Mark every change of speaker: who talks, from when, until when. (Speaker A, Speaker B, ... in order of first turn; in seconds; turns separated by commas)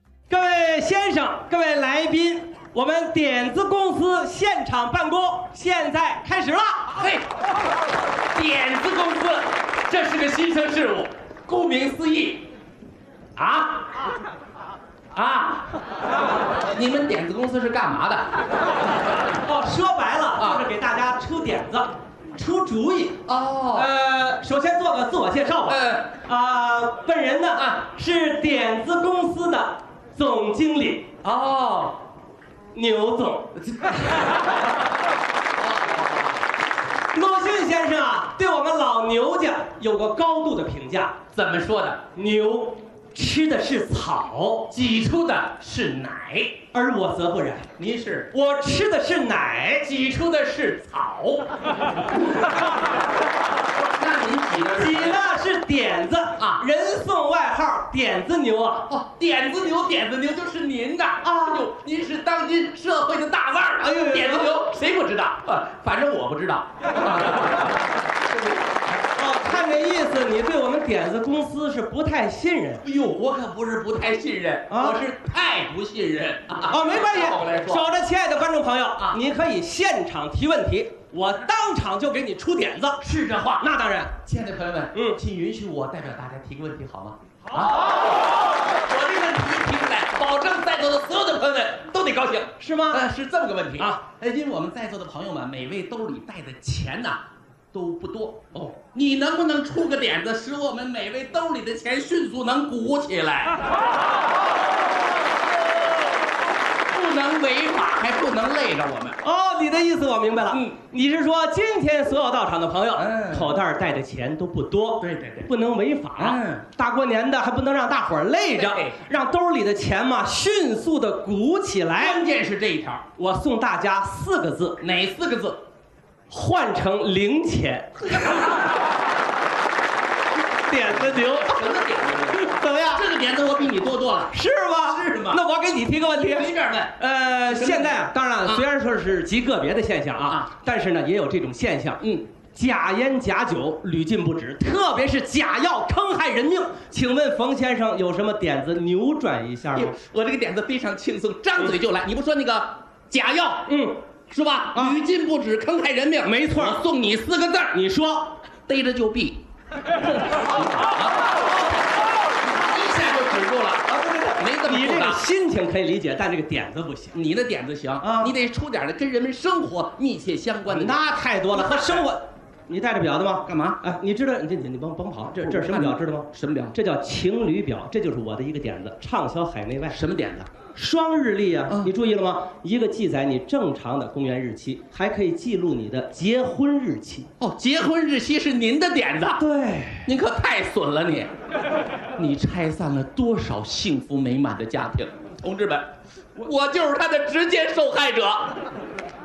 Speaker A: 0.3-6.9, Speaker B: 6.9-7.3, Speaker B: 8.3-12.5, Speaker A: 13.3-13.8, Speaker B: 15.1-15.7, Speaker B: 16.7-18.3, Speaker A: 19.4-23.2, Speaker B: 20.4-20.6, Speaker B: 23.3-23.9, Speaker A: 23.7-31.1, Speaker B: 25.7-26.1, Speaker B: 27.6-27.8, Speaker B: 31.2-32.0, Speaker A: 32.7-33.5, Speaker A: 37.1-41.2, Speaker B: 41.3-42.0, Speaker A: 42.1-44.7, Speaker B: 44.7-46.6, Speaker A: 46.7-47.7, Speaker B: 47.8-48.3, Speaker A: 48.3-49.9, Speaker B: 49.8-51.5, Speaker B: 53.8-55.2, Speaker A: 54.7-58.9, Speaker B: 56.4-56.6, Speaker B: 58.9-67.6, Speaker A: 61.2-61.7, Speaker A: 63.8-64.5, Speaker A: 69.1-72.8, Speaker B: 72.8-77.8, Speaker A: 74.7-75.0, Speaker A: 76.7-83.0, Speaker B: 83.0-83.7, Speaker A: 83.6-84.2, Speaker B: 84.2-88.1, Speaker B: 88.7-103.6, Speaker A: 92.6-93.0, Speaker B: 106.9-109.2, Speaker A: 109.2-122.2, Speaker B: 112.9-113.6, Speaker B: 115.0-115.5, Speaker B: 116.2-116.6, Speaker B: 118.5-119.0, Speaker B: 122.0-123.0, Speaker A: 123.2-124.8, Speaker B: 124.8-125.6, Speaker A: 126.3-128.3, Speaker A: 130.7-131.5, Speaker B: 130.9-135.4, Speaker A: 132.3-133.0, Speaker A: 134.3-142.0, Speaker B: 136.2-136.9, Speaker B: 137.4-138.6, Speaker B: 140.2-140.5, Speaker B: 142.0-142.2, Speaker A: 142.5-149.9, Speaker B: 149.7-153.7, Speaker A: 153.7-154.0, Speaker B: 154.3-157.8, Speaker A: 154.7-155.0, Speaker A: 156.2-156.8, Speaker A: 157.7-158.3, Speaker B: 158.7-159.4, Speaker B: 160.3-161.2, Speaker B: 162.5-165.2, Speaker A: 163.9-167.1, Speaker B: 167.1-171.0, Speaker A: 168.0-168.3, Speaker A: 170.7-180.0, Speaker B: 173.4-173.8, Speaker B: 175.4-176.7, Speaker B: 179.9-180.5, Speaker A: 180.7-187.3, Speaker B: 187.4-189.4, Speaker A: 189.4-190.1, Speaker B: 190.1-191.3, Speaker B: 192.2-198.7